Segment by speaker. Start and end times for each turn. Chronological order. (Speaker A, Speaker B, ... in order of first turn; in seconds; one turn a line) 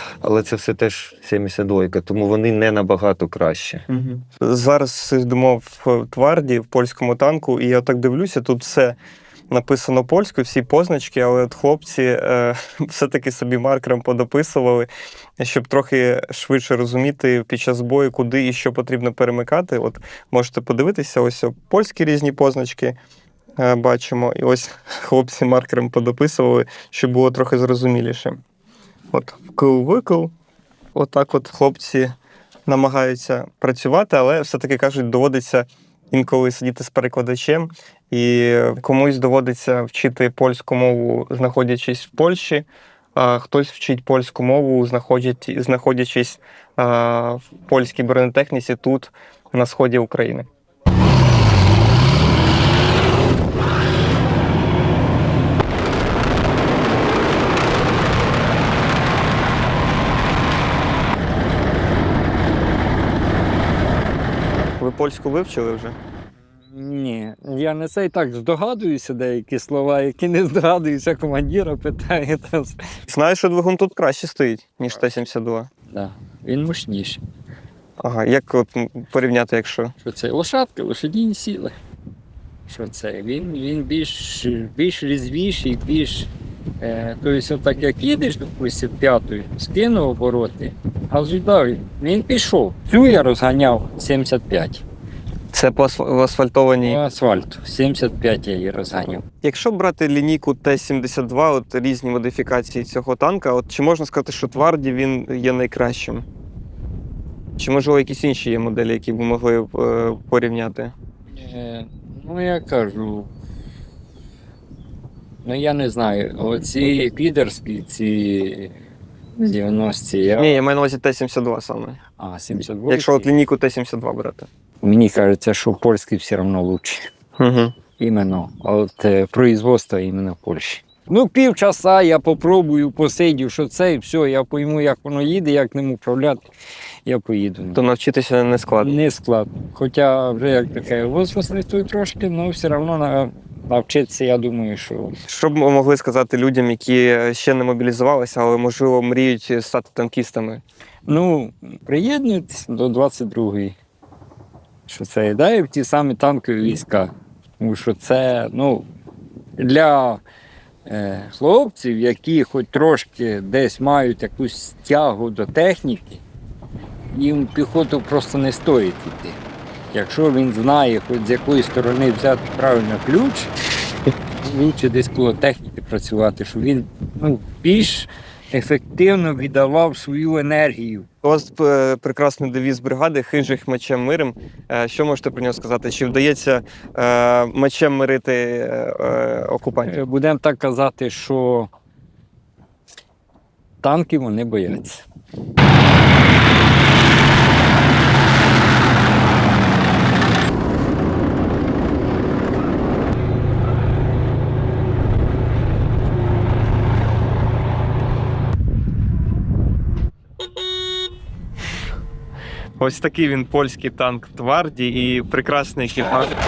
Speaker A: 0.2-3.8
Speaker B: 3.9-9.0
Speaker B: 9.5-14.9
Speaker B: 15.4-23.0
Speaker B: 23.6-28.4
Speaker B: 29.1-30.3
Speaker B: 30.9-32.1
Speaker B: 32.7-50.5
Speaker B: 64.8-66.0
Speaker C: 66.7-72.8
Speaker B: 73.1-75.7
Speaker C: 75.9-77.2
Speaker B: 78.0-79.9
Speaker C: 80.0-81.7
Speaker C: 82.7-86.3
Speaker C: 86.8-94.8
Speaker B: 95.5-97.0
Speaker C: 96.8-99.2
Speaker B: 99.4-106.3
Speaker B: 107.6-110.9
Speaker C: 111.4-113.3
Speaker C: 115.4-118.7
Speaker C: 119.4-120.6
Speaker B: 120.4-122.0
Speaker C: 122.2-123.3
Speaker B: 122.9-124.5
Speaker C: 124.8-127.1
Speaker B: 127.4-127.7
Speaker C: 128.0-136.4
Speaker C: 137.1-137.8
Speaker B: 137.7-139.0
Speaker C: 138.8-145.2
Speaker B: 145.3-150.6
Speaker C: 151.1-153.8
Speaker C: 154.9-158.9
Speaker C: 159.6-160.2
Speaker C: 160.9-166.2
Speaker C: 167.1-169.4
Speaker C: 169.9-173.5
Speaker C: 174.4-181.1
Speaker B: 181.2-189.9
Speaker C: 189.9-191.7
Speaker C: 193.8-195.1
Speaker B: 212.8-216.3